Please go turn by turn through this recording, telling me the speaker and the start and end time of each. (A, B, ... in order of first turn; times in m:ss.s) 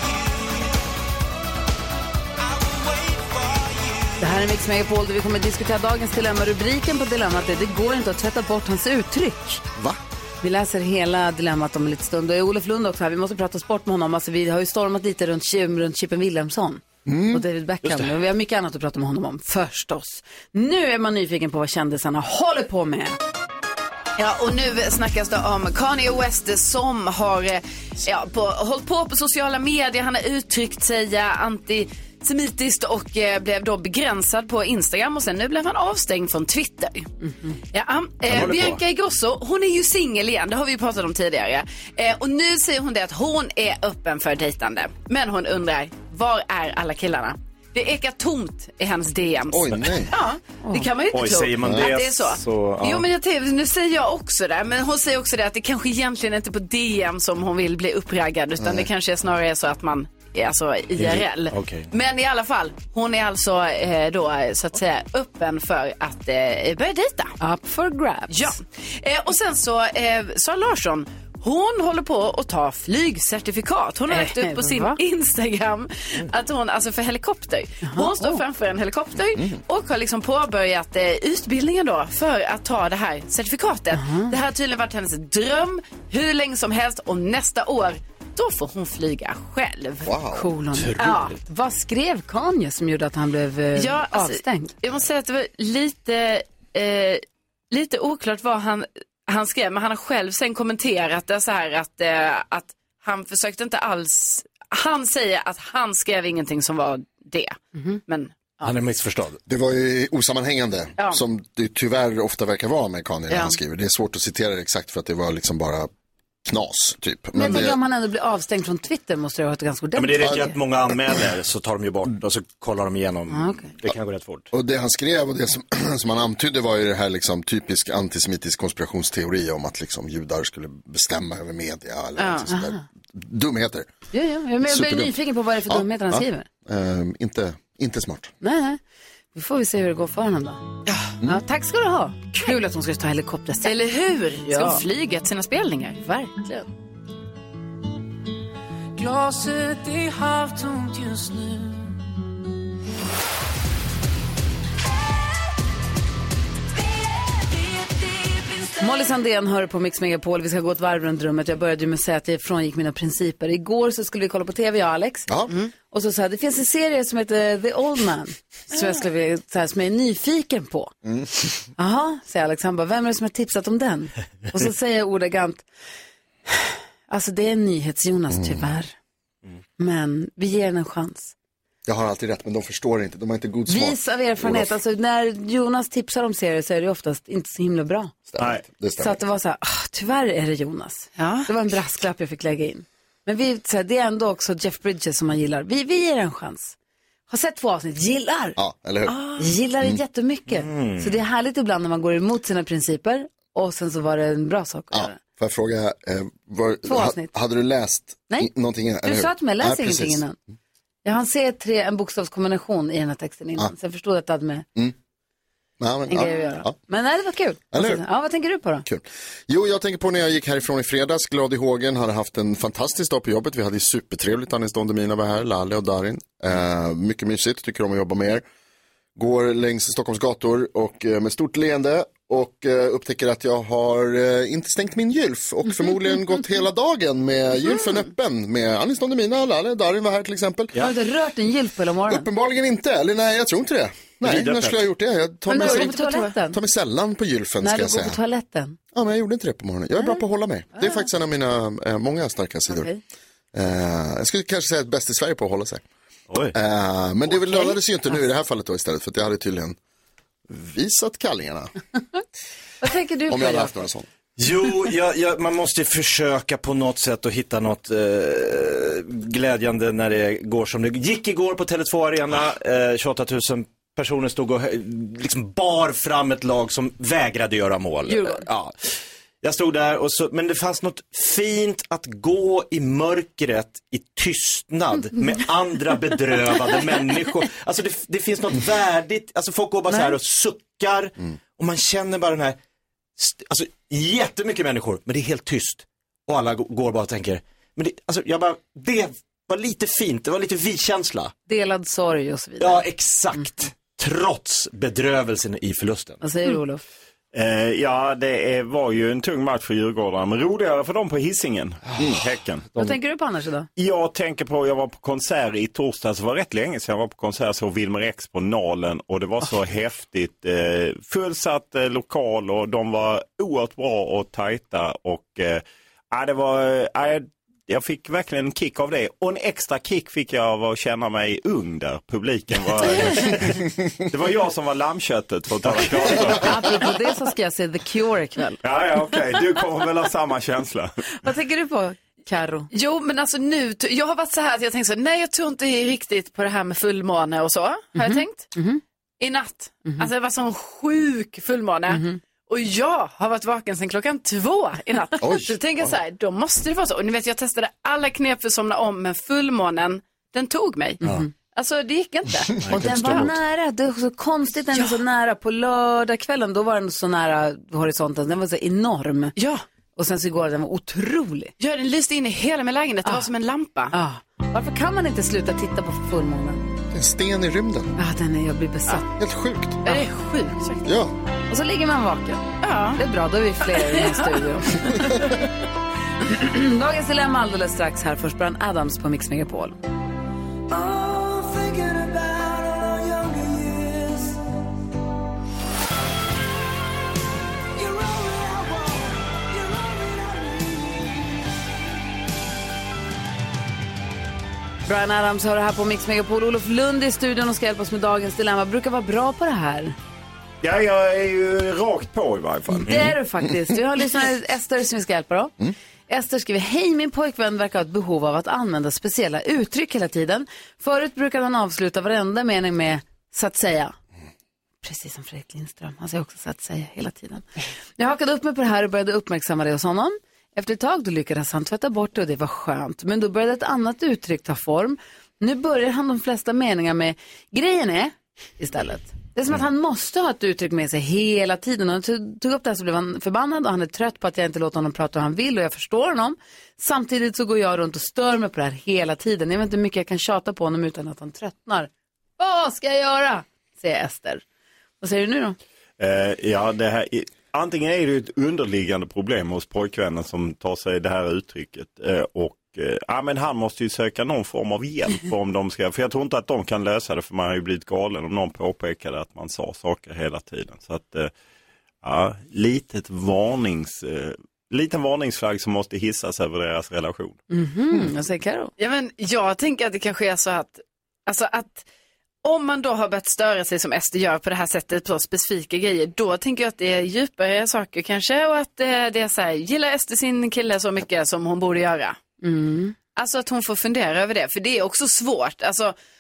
0:04.2-0:09.6 A
0:10.4-0:23.2 A
0:17.1-0:17.4 B
0:24.2-0:37.1 C
0:37.2-0:37.6 A
0:37.6-1:07.4 C
0:38.3-0:38.8 D
0:49.5-0:50.1 B
0:50.6-0:50.9 A
0:51.1-0:53.1 D
0:58.6-0:58.9 B
1:01.0-1:01.9 D
1:07.4-1:08.6 A
1:08.3-1:30.1 C
1:14.1-1:15.0 A
1:17.8-1:18.3 A
1:19.4-1:19.6 B
1:24.0-1:24.3 A
1:30.0-1:30.5 B
1:30.3-1:34.7 A
1:30.8-1:31.4 D
1:33.8-1:48.7 C
1:48.6-1:49.4 D
1:49.5-1:55.9 B
1:53.3-1:53.6 C
1:56.4-1:57.8 B
1:57.4-2:00.6 A
2:00.0-2:04.5 D
2:03.3-2:03.7 A
2:04.5-2:13.9 B
2:12.2-2:12.5 C
2:12.5-2:12.8 A
2:14.1-2:16.5 A
2:14.6-2:15.2 B
2:15.7-2:18.3 B
2:18.4-2:18.8 A
2:19.3-2:20.7 A
2:20.8-2:21.2 C
2:21.2-2:23.8 A
2:23.6-2:26.0 C
2:24.5-2:24.8 A
2:26.0-2:26.7 A
2:29.0-2:31.8 E
2:38.8-2:50.9 A
2:45.3-2:45.5 B
2:51.0-2:51.5 B
2:51.8-2:55.6 A
2:56.5-2:58.9 A
2:58.4-2:58.7 B
2:59.8-3:01.3 A
3:01.9-3:04.7 B
3:03.7-3:08.1 A
3:08.3-3:09.2 B
3:08.4-3:08.6 F
3:09.0-3:16.8 A
3:11.2-3:11.5 C
3:17.3-3:18.6 A
3:18.6-3:19.2 B
3:19.1-3:19.4 C
3:19.4-3:25.2 A
3:20.6-3:21.1 D
3:24.9-3:30.2 B
3:26.9-3:27.3 A
3:29.0-3:30.4 A
3:31.0-3:34.7 A
3:35.8-3:36.8 B
3:36.1-3:38.8 A
3:37.7-3:38.0 B
3:38.8-3:48.4 B
3:49.2-4:00.7 B
4:00.8-4:02.3 A
4:02.1-4:08.2 B
4:04.2-4:04.8 D
4:05.5-4:06.4 C
4:05.5-4:06.6 A
4:07.6-4:08.8 A
4:08.9-4:12.9 B
4:10.8-4:11.0 A
4:12.7-4:13.0 A
4:13.5-4:15.8 B
4:16.3-4:16.6 D
4:16.5-4:19.8 B
4:20.5-4:21.7 B
4:22.8-4:23.8 A
4:23.3-4:24.1 B
4:24.4-4:52.6 D
4:38.1-4:38.4 A
4:53.2-5:01.3 D
5:01.5-5:02.8 A
5:02.6-5:06.2 D
5:06.2-5:06.8 A
5:07.3-5:12.8 F
5:12.8-5:13.7 A
5:13.8-5:36.8 F
5:33.0-5:33.2 C
5:35.7-5:36.4 D
5:36.3-5:38.6 A
5:38.6-5:41.0 F
5:41.2-5:42.7 A
5:42.7-5:48.5 C
5:48.0-5:48.8 A
5:49.2-6:03.2 C
5:51.9-5:52.2 A
5:55.2-5:55.9 B
6:01.0-6:01.3 A
6:02.6-6:09.4 A
6:02.6-6:03.2 D
6:02.7-6:03.3 B
6:04.7-6:05.0 C
6:09.4-6:09.6 C
6:10.0-6:11.5 A
6:11.6-6:14.0 C
6:13.9-6:16.6 A
6:16.9-6:17.9 B
6:18.0-6:19.0 A
6:19.2-6:19.8 B
6:19.8-6:20.9 C
6:20.8-6:21.1 B
6:21.5-6:25.5 A
6:22.6-6:23.0 C
6:23.7-6:24.4 C
6:26.2-6:29.8 A
6:30.7-6:34.3 E
6:37.8-6:41.1 E
6:44.9-6:50.0 A
6:50.6-6:53.1 F
6:52.7-6:55.5 A
6:56.1-7:04.0 A
7:04.8-7:07.5 A
7:08.0-7:34.4 A
7:35.0-7:35.6 A
7:36.0-7:51.3 F
7:52.0-7:57.4 F
7:57.5-7:58.7 A
7:58.8-8:01.8 C
8:02.4-8:12.2 C
8:12.4-8:13.0 A
8:13.2-8:16.0 C